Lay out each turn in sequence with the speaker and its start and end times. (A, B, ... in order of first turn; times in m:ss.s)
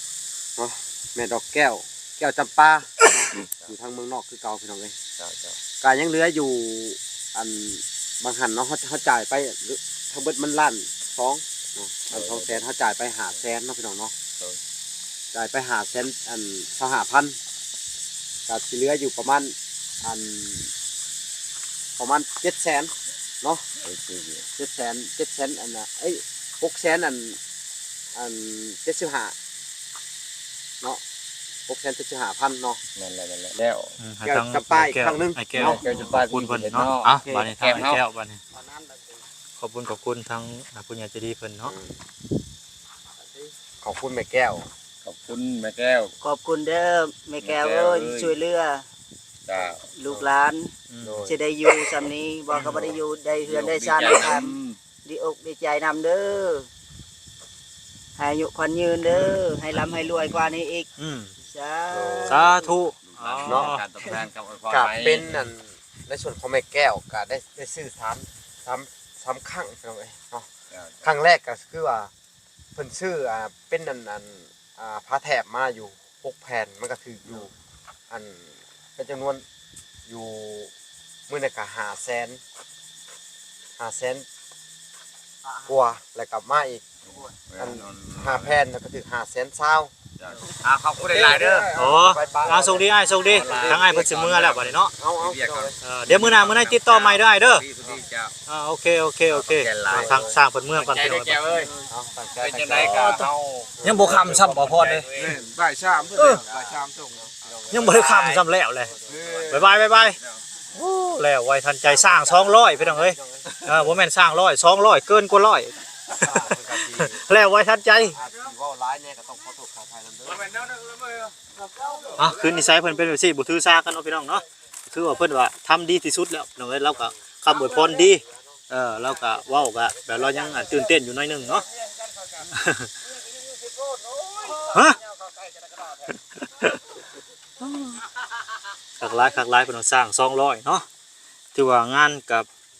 0:00.6-0:05.0 A
0:03.3-0:03.7 B
0:05.2-0:05.6 B
0:05.8-0:14.1 A
0:12.1-0:12.6 B
0:15.3-0:17.4 A
0:18.5-0:20.7 A
0:22.0-0:23.7 A
0:23.8-0:24.4 B
0:24.6-0:27.4 A
0:28.1-0:29.4 A
0:31.7-0:32.8 A
0:33.0-0:34.0 B
0:34.0-0:38.4 C
0:34.2-0:35.8 A
0:35.6-0:38.0 B
0:39.6-0:41.7 C
0:41.6-0:42.0 A
0:43.8-0:44.7 A
0:45.0-0:46.1 B
0:46.2-0:48.9 D
0:47.4-0:48.4 B
0:49.5-0:49.8 B
0:49.6-0:50.7 D
0:50.9-0:51.3 C
0:51.0-0:51.4 A
0:51.2-0:56.7 D
0:52.5-0:52.9 C
0:52.6-0:54.8 B
0:58.2-1:00.9 D
0:59.1-0:59.9 C
1:01.0-1:01.3 C
1:01.4-1:02.6 D
1:01.9-1:02.5 A
1:02.3-1:03.8 C
1:03.0-1:05.3 B
1:03.4-1:03.8 A
1:04.7-1:10.5 A
1:10.7-1:11.0 B
1:11.0-1:12.1 A
1:12.8-1:17.5 A
1:18.1-1:19.4 A
1:20.1-1:20.7 A
1:21.3-1:22.4 A
1:23.8-1:24.3 A
1:25.6-1:26.8 A
1:27.1-1:28.6 B
1:27.6-1:29.9 A
1:30.2-1:31.8 B
1:31.1-1:34.0 A
1:31.8-1:34.9 C
1:33.2-1:38.4 B
1:35.0-1:35.8 A
1:35.8-1:37.6 C
1:38.5-1:41.5 C
1:39.3-1:40.2 B
1:39.9-1:40.4 A
1:40.7-1:41.7 B
1:41.9-1:43.2 A
1:42.4-1:45.5 B
1:42.7-1:43.3 C
1:43.8-1:44.5 A
1:43.8-1:45.1 C
1:45.2-1:47.2 E
1:45.8-1:48.3 A
1:46.2-1:46.4 C
1:46.4-1:46.8 B
1:47.7-1:48.9 C
1:47.8-1:48.4 B
1:48.9-1:49.7 A
1:49.0-1:50.4 B
1:49.5-1:50.2 C
1:50.7-1:58.2 C
1:51.8-1:53.7 A
1:56.2-1:57.2 A
1:58.1-2:00.7 A
2:02.2-2:11.7 C
2:12.5-2:12.9 C
2:14.6-2:15.0 C
2:19.0-2:20.8 C
2:21.5-2:22.5 C